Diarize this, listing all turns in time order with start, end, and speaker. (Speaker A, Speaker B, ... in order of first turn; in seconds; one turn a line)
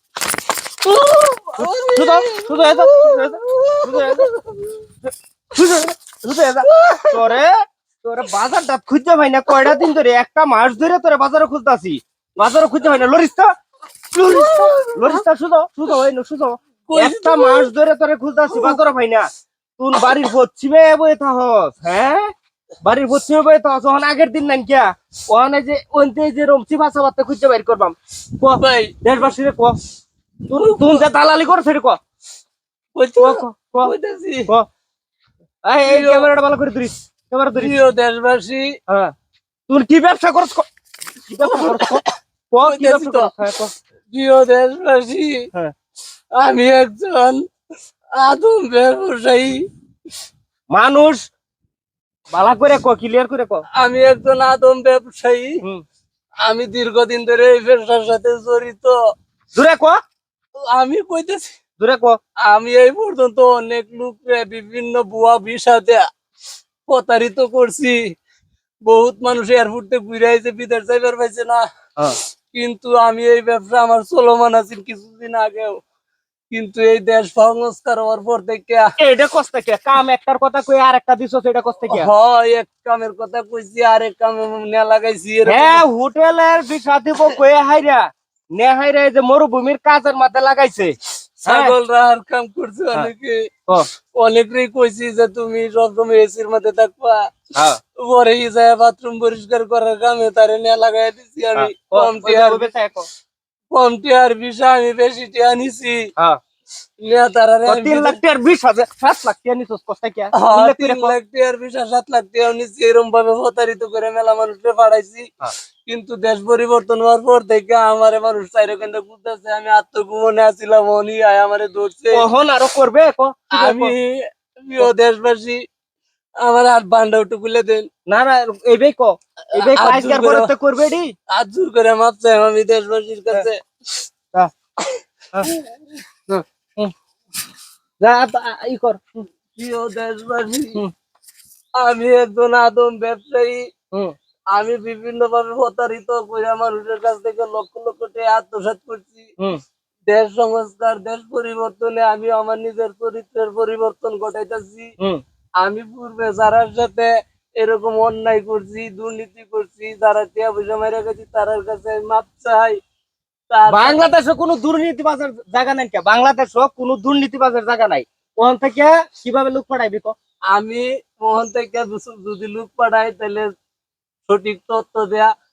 Speaker A: 0.8-4.8
Speaker B: 1.6-4.3
Speaker B: 5.0-13.5
Speaker A: 6.6-7.4
Speaker A: 14.1-15.2
Speaker B: 14.2-29.8
Speaker A: 16.9-17.7
Speaker A: 18.5-18.8
Speaker A: 28.5-28.9
Speaker B: 30.5-32.0
Speaker A: 30.5-31.1
Speaker A: 33.0-34.5
Speaker B: 33.2-33.9
Speaker B: 35.6-37.8
Speaker A: 35.8-36.3
Speaker A: 37.5-38.8
Speaker B: 38.9-39.1
Speaker B: 39.7-40.6
Speaker B: 41.2-43.7
Speaker A: 41.4-42.1
Speaker A: 42.6-43.3
Speaker A: 44.1-45.5
Speaker A: 46.3-47.4
Speaker A: 48.1-49.7
Speaker B: 50.7-51.2
Speaker B: 52.3-53.6
Speaker A: 53.7-55.6
Speaker A: 56.4-59.0
Speaker B: 59.5-60.0
Speaker A: 60.7-61.5
Speaker B: 61.8-62.2
Speaker A: 62.4-66.0
Speaker A: 66.9-68.1
Speaker A: 68.8-71.7
Speaker A: 72.5-75.8
Speaker A: 76.5-78.9
Speaker B: 79.0-82.1
Speaker A: 81.9-85.8
Speaker B: 85.5-91.7
Speaker A: 91.4-93.5
Speaker A: 94.1-97.3
Speaker B: 97.5-97.8
Speaker A: 98.0-102.7
Speaker B: 101.5-103.1
Speaker A: 103.7-106.1
Speaker A: 107.0-108.2
Speaker B: 107.7-111.1
Speaker A: 110.3-115.3
Speaker A: 115.8-122.3
Speaker B: 122.1-123.9
Speaker A: 123.5-125.6
Speaker A: 126.4-127.9
Speaker B: 128.1-131.1
Speaker A: 129.5-130.5
Speaker A: 131.3-134.0
Speaker A: 135.4-135.7
Speaker B: 138.0-139.2
Speaker A: 139.5-140.8
Speaker A: 141.8-143.7
Speaker A: 144.5-149.3
Speaker A: 150.1-154.9
Speaker A: 155.6-162.8
Speaker A: 163.5-164.0
Speaker B: 163.7-170.1
Speaker A: 170.5-173.5
Speaker A: 174.3-175.3